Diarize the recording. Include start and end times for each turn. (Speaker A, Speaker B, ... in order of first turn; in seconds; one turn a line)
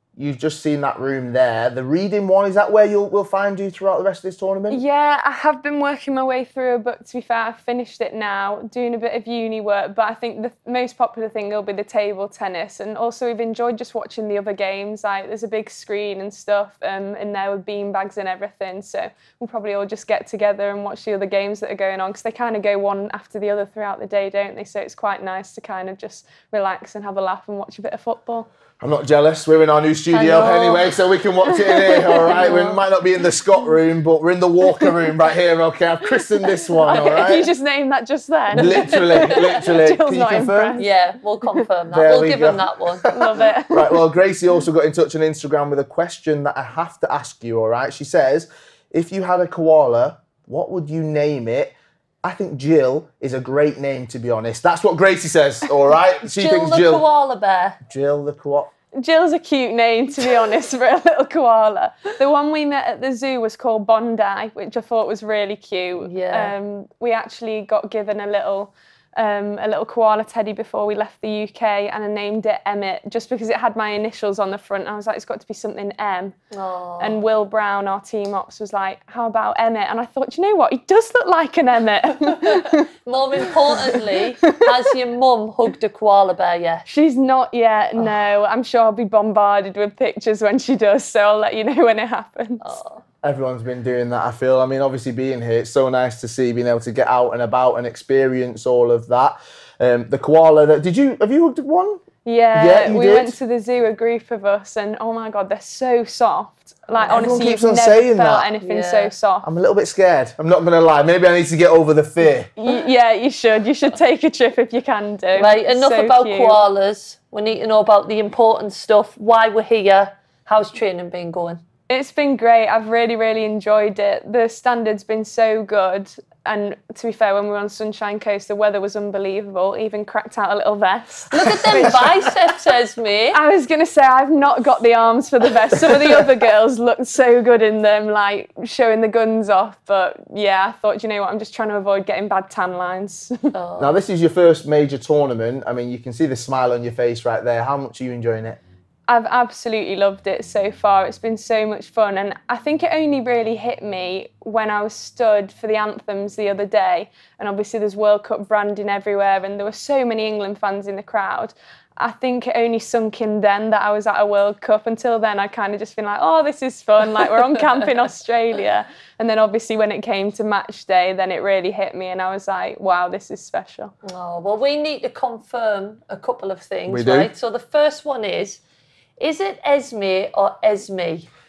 Speaker A: 0.1-4.8
Speaker B: 4.7-28.5
Speaker A: 28.8-37.5
Speaker C: 30.1-30.9
Speaker C: 32.2-32.8
Speaker B: 36.9-40.9
Speaker C: 36.9-37.2
Speaker A: 38.5-40.8
Speaker C: 38.6-39.5
Speaker C: 40.8-43.1
Speaker A: 41.9-57.0
Speaker B: 43.1-44.0
Speaker C: 56.2-57.8
Speaker A: 57.9-58.7
Speaker B: 59.0-76.3
Speaker C: 66.0-66.5
Speaker C: 76.5-77.2
Speaker B: 77.0-84.9
Speaker C: 82.4-86.9
Speaker B: 86.9-92.6
Speaker C: 92.6-93.0
Speaker A: 93.2-103.3
Speaker B: 102.2-109.5
Speaker C: 107.0-107.4
Speaker A: 107.1-108.5
Speaker C: 108.6-109.1
Speaker A: 109.4-112.5
Speaker B: 112.6-116.6
Speaker C: 115.3-121.6
Speaker B: 121.9-132.3
Speaker C: 131.3-133.4
Speaker B: 133.3-143.5
Speaker C: 143.5-143.9
Speaker A: 143.8-148.6
Speaker B: 149.1-173.9
Speaker C: 174.0-178.6
Speaker A: 176.9-177.3
Speaker C: 179.2-181.3